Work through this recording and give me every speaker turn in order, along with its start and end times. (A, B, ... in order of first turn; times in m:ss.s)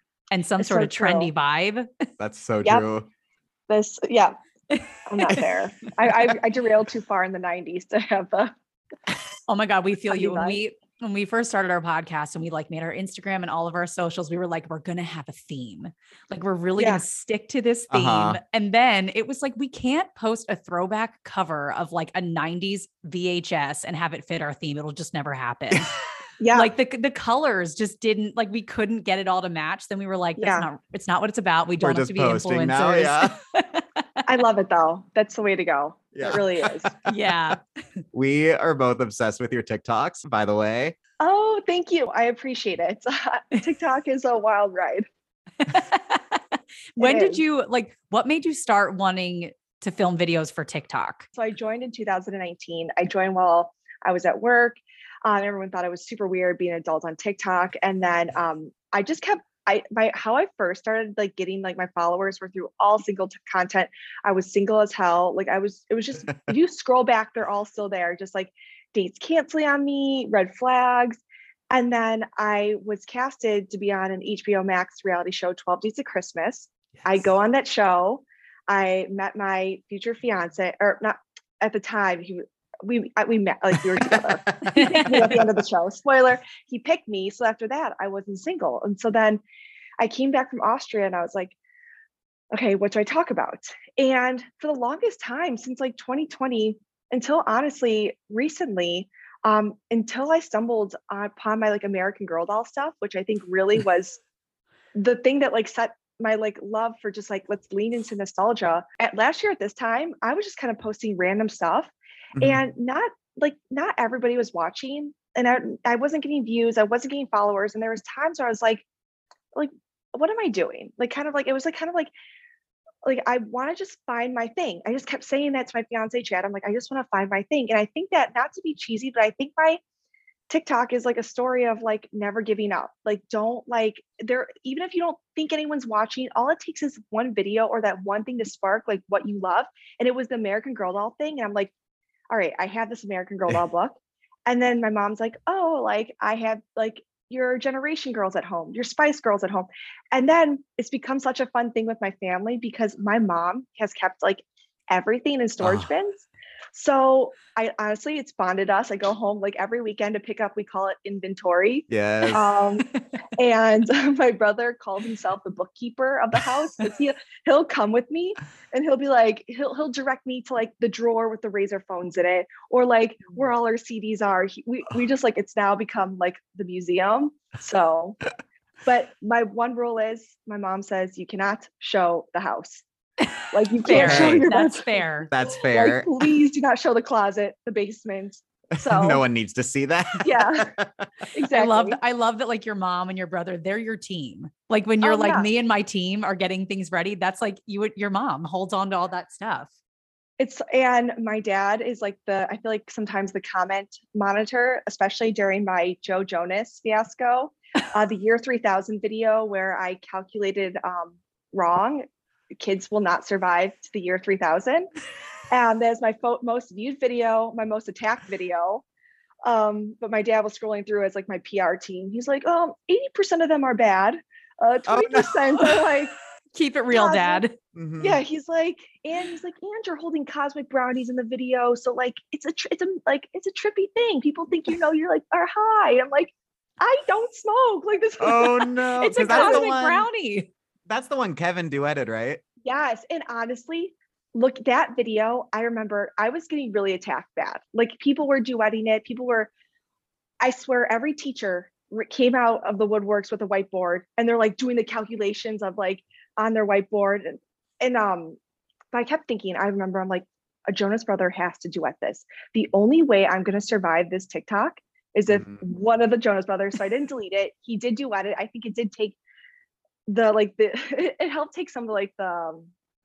0:00.3-0:01.9 A
0:00.6-0:01.3 B
0:02.2-0:03.1 C
0:03.7-0:04.4 B
0:04.7-0:05.4 A
0:05.1-0:08.5 B
0:09.5-0:25.9 A
0:10.1-0:10.6 B
0:16.8-0:17.0 B
0:17.9-0:18.4 C
0:26.4-0:26.7 B
0:26.5-0:34.2 A
0:30.4-0:30.7 B
0:31.8-0:33.3 C
0:34.3-0:36.9 B
0:36.2-0:37.5 C
0:37.0-0:37.6 A
0:38.1-0:41.0 C
0:41.2-0:45.0 B
0:45.6-0:51.3 A
0:47.0-0:47.4 B
0:51.3-1:29.4 B
1:23.9-1:25.4 C
1:24.6-1:25.4 A
1:30.0-1:31.6 B
1:32.5-1:44.2 B
1:44.9-1:58.8 B
1:52.4-1:52.6 C
1:59.5-2:02.1 B
2:03.0-2:09.8 B
2:10.5-2:21.7 B
2:22.3-2:58.2 B
2:35.6-2:35.9 C
2:41.9-2:42.5 C
2:42.2-2:43.0 A
2:58.8-3:02.8 B
3:03.2-3:05.3 A
3:03.5-3:05.1 B
3:03.9-3:04.5 C
3:05.3-3:06.1 C
3:05.7-3:09.2 B
3:08.8-3:11.1 C
3:10.2-3:10.7 B
3:11.3-3:12.0 B
3:11.5-3:19.7 A
3:15.0-3:15.5 B
3:20.4-3:32.0 B
3:32.6-3:34.9 B
3:35.5-3:38.8 B
3:39.4-3:46.1 B
3:44.9-3:46.0 C
3:46.5-3:47.5 A
3:46.9-3:47.4 B
3:47.7-3:48.2 C
3:48.0-3:59.6 B
3:58.2-4:00.1 C
3:59.0-4:00.5 A
4:00.9-4:02.4 C
4:02.6-4:09.5 B
4:10.4-4:18.4 B
4:18.9-4:29.2 B
4:25.3-4:25.6 C
4:30.1-4:32.7 B